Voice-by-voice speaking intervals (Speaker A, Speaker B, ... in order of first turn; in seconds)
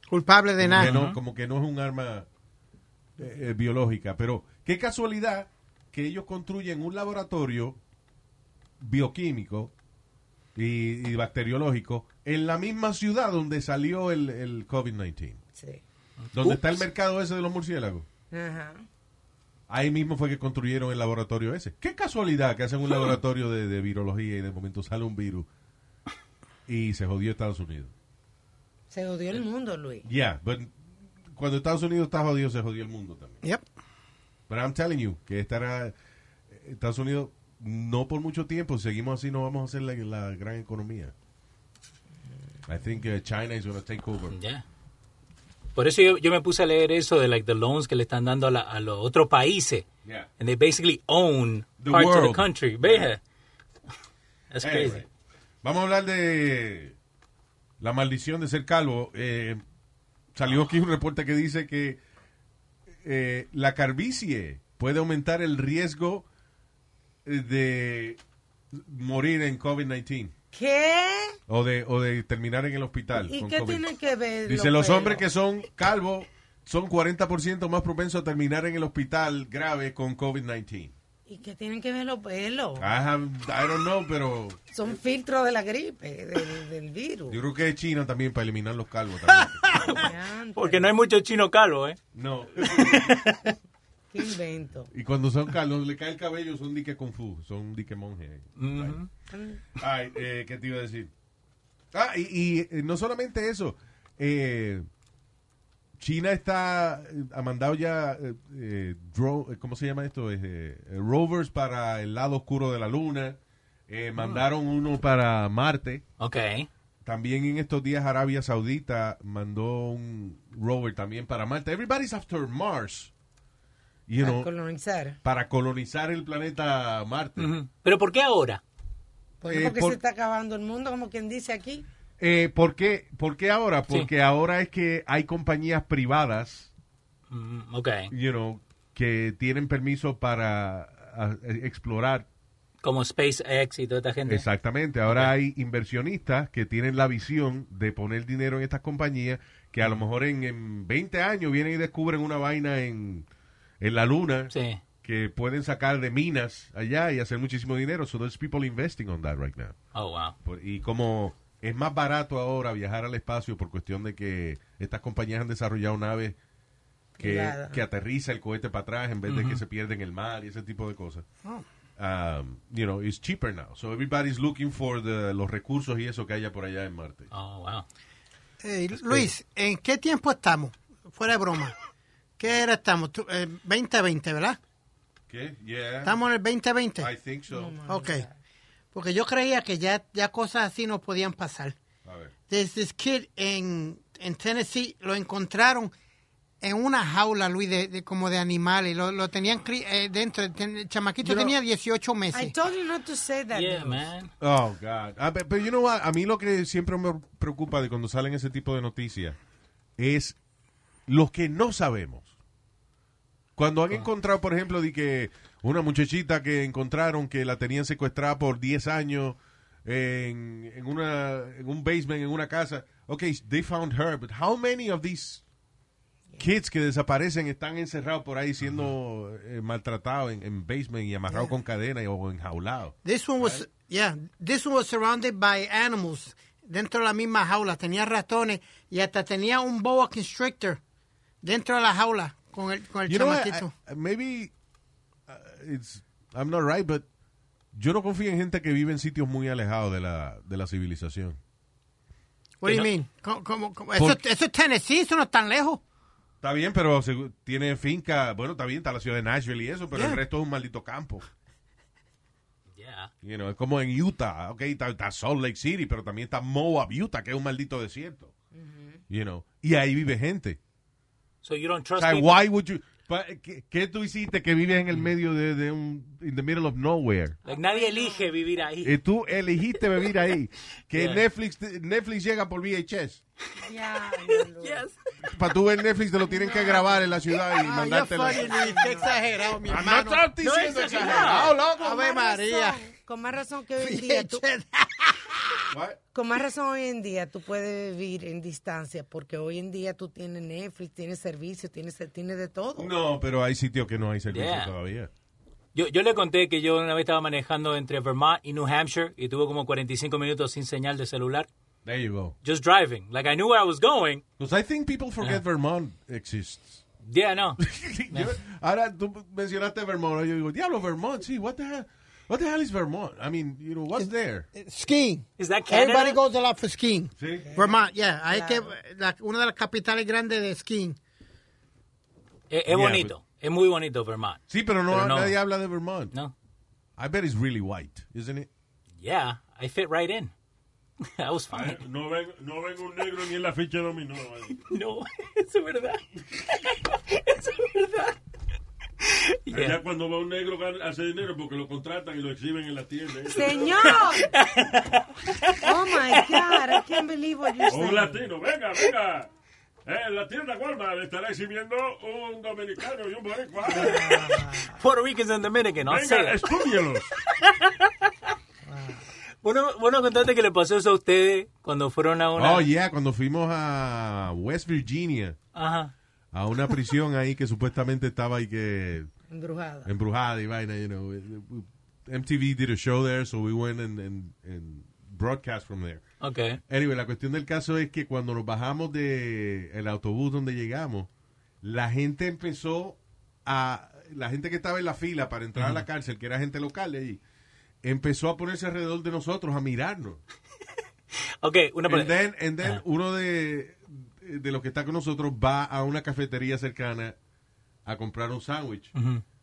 Speaker A: 0.1-0.9, 178.6-181.8, 182.4-184.6, 186.0-187.1, 187.9-188.2, 188.9-191.8, 192.5-195.9, 196.6-202.5, 233.0-240.8, 241.4-243.7, 252.6-255.8, 259.9-260.2, 287.6-290.3, 291.1-292.8, 293.8-295.6, 324.0-331.0
Speaker B: 0.6-2.3, 3.2-7.8, 8.8-9.7, 10.5-15.4, 16.3-18.1, 19.7-25.5, 26.7-27.9, 30.0-30.7, 31.3-33.4, 34.5-35.9, 36.5-41.1, 42.7-44.4, 51.8-53.0, 54.6-55.1, 55.6-57.0, 57.8-59.6, 60.3-62.0, 63.0-66.2, 67.2-68.2, 68.7-70.3, 71.5-73.8, 74.5-80.9, 82.8-84.6, 87.3-90.0, 92.1-93.2, 94.9-99.0, 99.8-101.1, 101.9-104.8, 106.0-116.0, 117.0-123.1, 124.1-124.5, 125.2-127.5, 129.5-130.0, 132.2-136.7, 138.1-142.3, 144.2-153.3, 153.8-159.8, 160.4-166.4, 167.2-171.2, 172.0-177.3, 185.3-186.2, 187.0-187.8, 192.0-192.3, 204.4-209.4, 210.0-210.4, 211.1-212.3, 213.6-225.4, 226.4-233.7, 243.1-244.5, 245.3-247.0, 247.7-251.4, 253.9-254.2, 256.4-261.2, 263.2-268.3, 269.1-270.6, 272.0-277.4, 278.8-283.2, 285.2-288.5, 289.6-291.7, 295.7-296.0, 302.8-305.1, 311.8-312.4, 314.4-316.8, 317.6-324.5, 327.2-327.5, 332.7-333.1, 334.5-336.1, 337.0-338.5, 372.4-375.4, 376.3-379.1, 379.8-386.0, 386.7-391.1, 391.6-397.2, 397.8-400.2, 401.9-407.1, 407.9-408.9
Speaker C: 0.7-1.2, 16.2-16.8, 44.3-44.6, 45.8-49.9, 50.4-53.2, 54.5-55.0, 90.1-92.0, 92.6-93.5, 98.6-99.1, 114.2-114.4, 116.2-116.7, 127.4-128.6, 137.3-138.1, 142.8-144.4, 145.1-145.3, 154.5-154.8, 159.9-160.3, 169.3-169.6, 177.3-177.8, 203.5-204.3, 252.6-252.9, 262.8-263.1, 271.4-272.4, 277.5-279.0, 279.8-280.1, 280.9-281.2, 284.3-284.9, 290.4-291.6, 304.3-304.7, 305.7-311.5, 312.4-314.2, 317.1-318.3, 325.4-326.2, 332.5-335.4, 339.0-340.3, 341.0-341.8, 344.6-348.2, 349.0-349.8, 353.7-357.0, 363.8-366.5, 367.3-368.1, 369.4-372.7, 375.5-375.9, 386.2-386.6, 395.6-395.8, 401.4-402.8, 408.9-409.2
Speaker D: 15.6-15.8, 18.3-18.9, 28.9-30.1, 70.5-71.4, 73.2-75.2, 81.3-82.9, 84.7-87.4, 89.8-90.9, 94.1-94.9, 99.3-99.6, 124.2-125.2, 129.4-131.8, 167.2-167.8, 187.5-188.4, 201.2-201.5, 202.3-204.1, 268.5-269.0, 277.4-278.3, 283.6-284.9, 286.2-287.2, 288.2-289.2, 291.0-294.4, 296.1-302.9, 327.4-328.7, 353.3-354.3, 355.6-358.2, 363.7-364.8, 368.7-369.1, 379.3-379.9
Speaker E: 341.5-344.6, 349.5-354.1, 357.7-359.3, 359.9-364.2, 365.8-367.1